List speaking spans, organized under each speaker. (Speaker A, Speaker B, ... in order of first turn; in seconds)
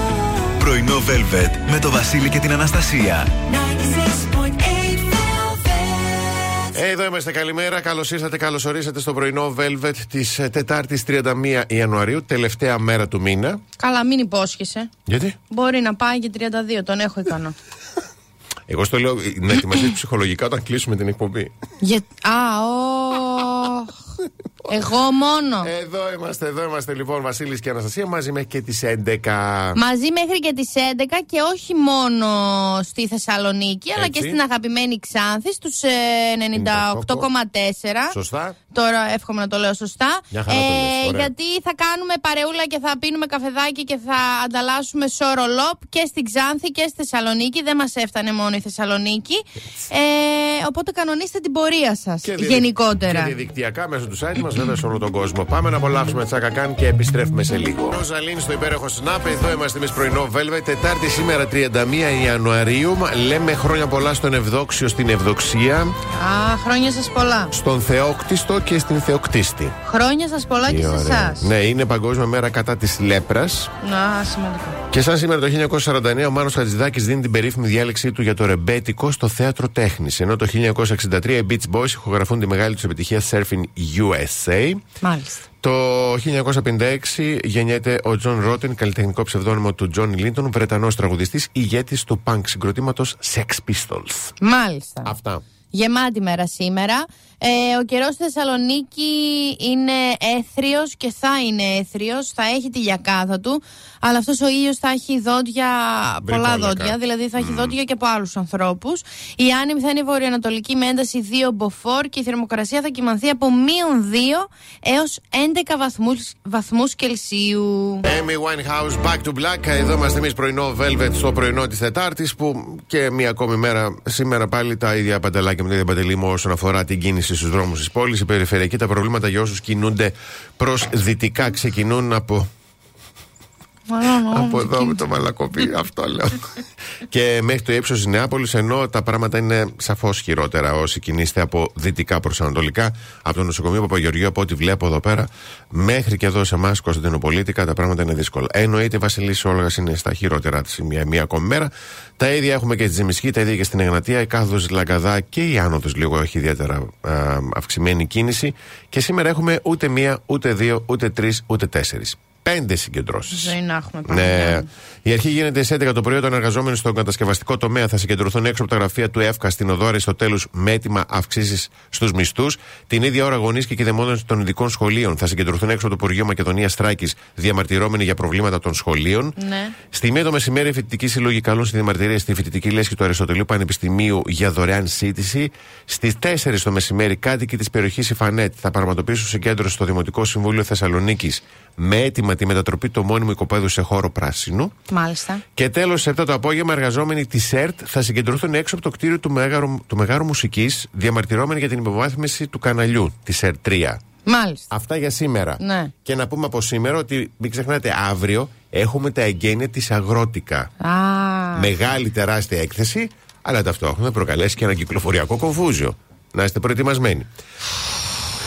Speaker A: 0.6-3.3
Speaker B: 6.7-13.6, 15.1-15.4, 18.7-21.5, 25.6-29.8, 34.0-34.4, 36.5-37.3, 38.1-38.6, 40.3-41.3, 52.2-66.0, 67.5-69.8, 70.7-73.7, 74.9-84.8, 85.6-94.3, 95.0-95.4, 106.2-107.7, 118.0-132.5, 134.3-136.4, 137.1-163.5, 164.1-179.4, 179.9-194.7, 195.6-204.0, 204.7-210.7, 211.6-217.3
Speaker C: 13.8-14.9, 15.5-17.6, 21.8-24.0, 24.7-25.7, 29.7-38.2, 38.7-53.4, 66.1-67.5, 69.8-71.5, 73.8-74.8, 85.0-85.4, 94.4-95.1, 95.7-118.1, 133.9-135.0, 163.3-164.7, 179.4-179.8, 194.9-195.4, 204.2-204.7, 205.6-205.9, 210.8-211.7